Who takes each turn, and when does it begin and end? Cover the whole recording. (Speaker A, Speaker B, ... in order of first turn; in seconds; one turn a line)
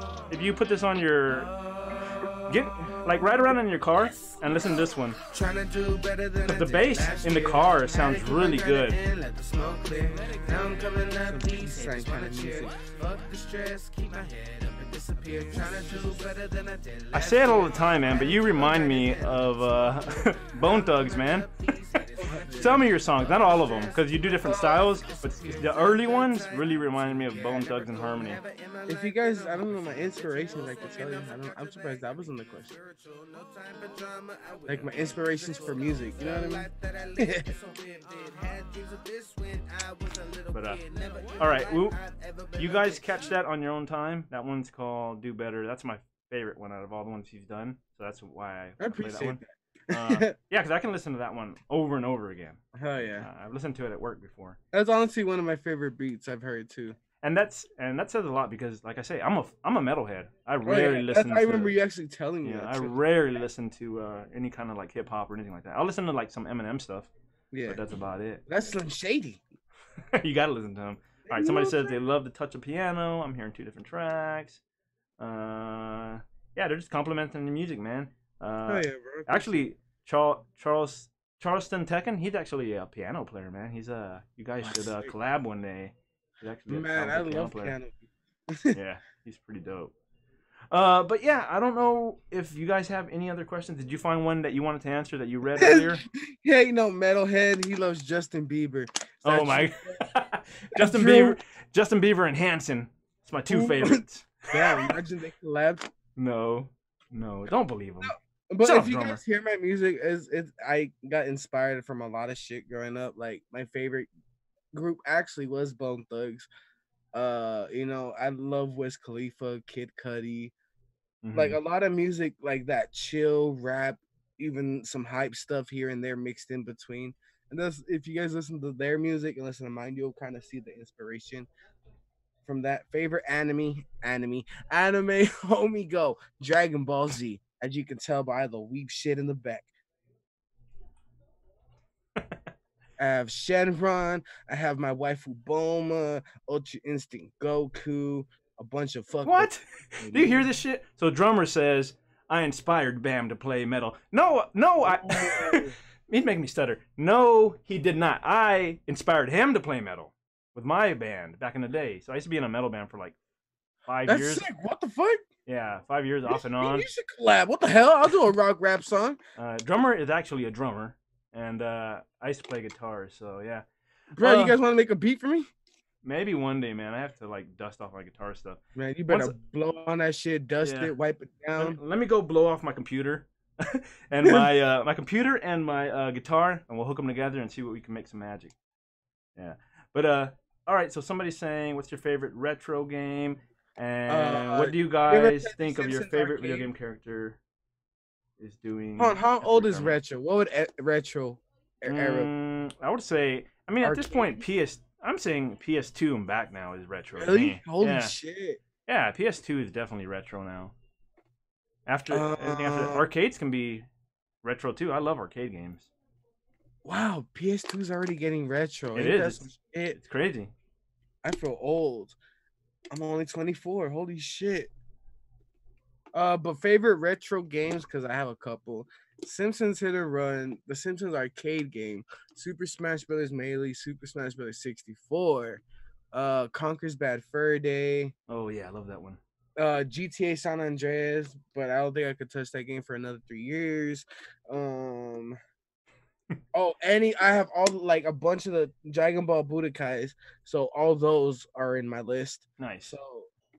Speaker A: 0.3-1.5
Speaker B: 1.5-2.3
Speaker A: 2.5-5.2
Speaker B: 5.2-43.3
Speaker A: 6.4-9.0
Speaker C: 11.2-12.8
Speaker A: 17.1-21.5
Speaker C: 22.2-22.9
Speaker A: 22.5-28.4
Speaker C: 28.9-32.7
Speaker C: 34.7-37.5
Speaker A: 40.5-40.8
Speaker A: 41.4-42.0
Speaker A: 42.5-52.6
Speaker C: 48.8-50.3
Speaker C: 52.7-53.3
Speaker A: 53.2-54.6
Speaker C: 54.7-57.0
Speaker A: 57.2-61.7
Speaker C: 60.6-63.0
Speaker A: 62.4-67.1
Speaker C: 67.5-67.8
Speaker A: 67.7-68.4
Speaker C: 68.5-69.4
Speaker A: 70.1-74.6
Speaker C: 71.2-72.0
Speaker A: 75.2-87.8
Speaker C: 78.7-79.6
Speaker C: 84.6-85.1
Speaker C: 86.7-88.8
Speaker A: 88.7-89.9
Speaker A: 90.7-96.0
Speaker C: 95.5-100.0
Speaker A: 99.2-104.9
Speaker C: 100.7-101.4
Speaker C: 103.5-105.9
Speaker A: 106.2-109.2
Speaker C: 108.0-114.1
Speaker C: 114.7-116.5
Speaker C: 117.1-120.5
Speaker A: 121.2-121.6
Speaker C: 121.3-131.5
Speaker C: 132.4-139.7
Speaker C: 143.0-150.5
Speaker A: 149.2-163.2
Speaker C: 154.8-155.7
Speaker A: 163.9-164.4
Speaker C: 164.1-165.2
Speaker A: 165.5-166.9
Speaker C: 166.3-169.2
Speaker A: 169.3-173.6
Speaker C: 174.1-175.5
Speaker A: 174.2-174.6
Speaker A: 176.0-179.3
Speaker C: 178.8-181.8
Speaker A: 180.6-180.9
Speaker A: 181.6-188.5
Speaker C: 184.2-184.5
Speaker A: 189.3-197.4
Speaker C: 194.1-196.7
Speaker A: 198.4-199.9
Speaker C: 199.0-202.3
Speaker A: 201.8-208.1
Speaker C: 203.8-204.4
Speaker C: 207.2-208.6
Speaker A: 208.8-210.7
Speaker A: 211.8-213.9
Speaker C: 212.1-213.0
Speaker A: 214.4-215.9
Speaker C: 216.8-220.0
Speaker A: 218.9-220.5
Speaker C: 221.2-222.2
Speaker C: 222.9-224.7
Speaker C: 226.1-235.6
Speaker C: 236.1-238.1
Speaker A: 238.3-239.2
Speaker C: 239.6-245.4
Speaker C: 246.5-253.3
Speaker A: 252.6-252.9